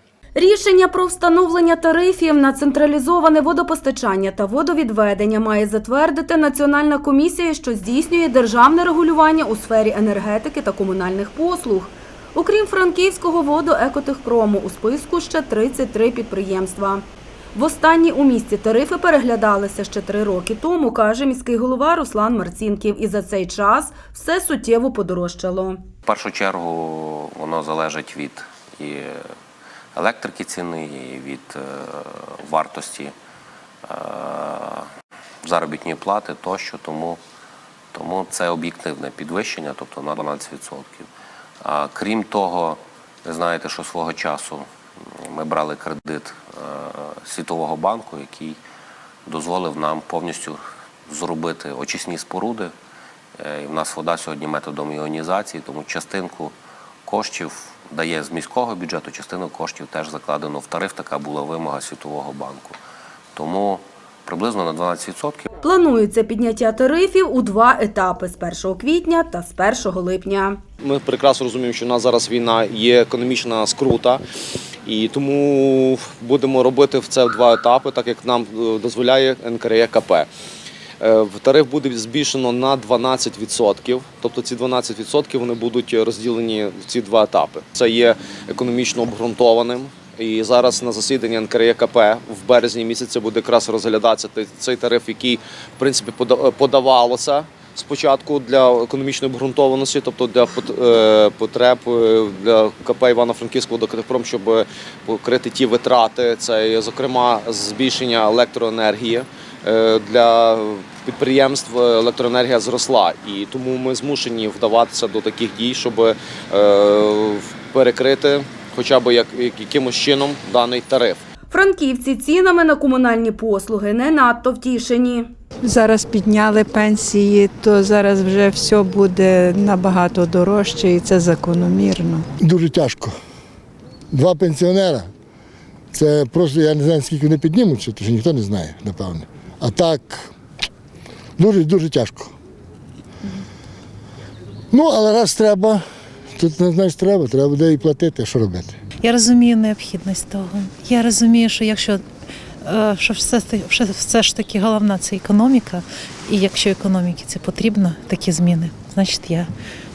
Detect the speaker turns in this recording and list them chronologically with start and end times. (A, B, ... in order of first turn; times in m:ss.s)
0:00.3-0:25.8 A
0:26.0-0:29.2 B
0:29.9-0:33.1 B
0:33.8-0:34.9 B
0:35.4-0:37.2 B
0:37.9-0:41.1 B
0:41.6-0:48.6 B
0:49.2-0:52.7 B
0:53.4-0:56.5 B
0:57.0-1:02.8 B
1:03.3-1:05.4 B
1:05.6-1:10.6 A
1:10.8-1:14.2 C
1:14.8-1:20.3 C
1:21.0-2:01.2 C
2:01.5-2:05.3 A
2:05.6-2:12.2 D
2:12.4-2:13.1 E
2:14.1-2:15.1 E
2:15.9-2:20.3 E
2:21.4-2:22.3 E
2:24.7-2:25.8 E
2:26.4-2:28.7 E
2:29.0-2:32.0 F
2:32.6-2:39.5 F